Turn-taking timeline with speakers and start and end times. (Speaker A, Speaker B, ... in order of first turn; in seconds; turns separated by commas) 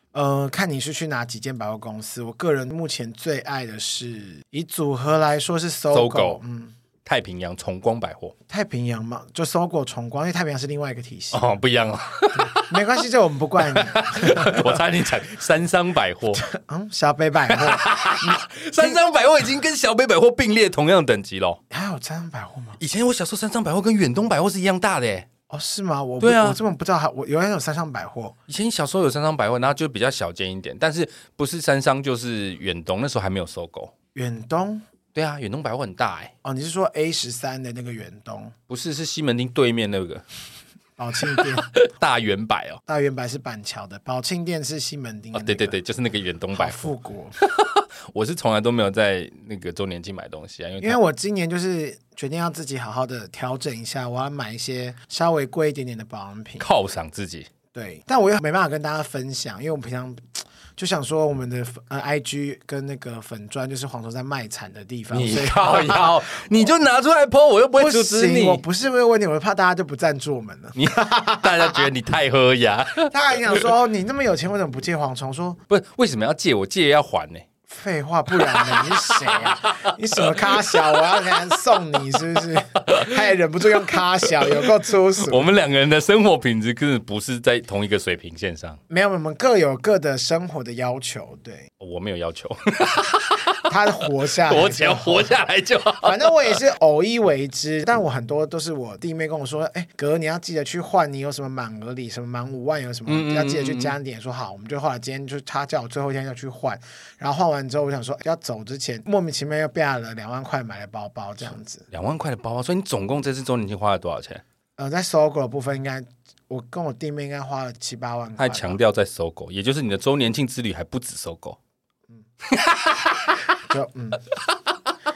Speaker A: 0.1-6.7, Speaker B: 5.9-6.4, Speaker B: 7.0-8.3, Speaker A: 8.5-11.5, Speaker B: 11.3-12.8, Speaker A: 12.3-14.8, Speaker B: 13.6-16.4, Speaker A: 16.4-19.0, Speaker B: 17.5-21.6, Speaker A: 21.7-22.8, Speaker B: 22.8-25.3, Speaker A: 25.5-28.3, Speaker B: 26.2-26.6, Speaker B: 28.5-33.9, Speaker A: 34.1-34.8, Speaker B: 35.1-36.3, Speaker A: 36.4-38.5, Speaker B: 38.7-40.2, Speaker A: 41.0-41.7, Speaker B: 41.3-42.8, Speaker A: 42.9-45.8, Speaker B: 45.3-51.0, Speaker A: 46.5-47.4, Speaker A: 50.8-56.7, Speaker B: 56.6-57.5, Speaker A: 57.7-66.2, Speaker B: 65.1-68.6, Speaker A: 67.8-71.9, Speaker B: 70.8-73.6, Speaker A: 73.1-75.6, Speaker B: 75.7-77.5, Speaker A: 77.7-85.5, Speaker B: 78.4-81.5, Speaker B: 82.8-88.8, Speaker A: 88.9-91.7, Speaker B: 91.8-93.7, Speaker A: 93.7-95.4, Speaker B: 94.4-96.5, Speaker A: 96.0-111.9, Speaker B: 103.1-103.9, Speaker B: 111.9-114.4, Speaker A: 114.8-118.8, Speaker B: 118.4-121.6, Speaker B: 122.5-123.6, Speaker A: 123.7-124.2, Speaker B: 124.3-124.8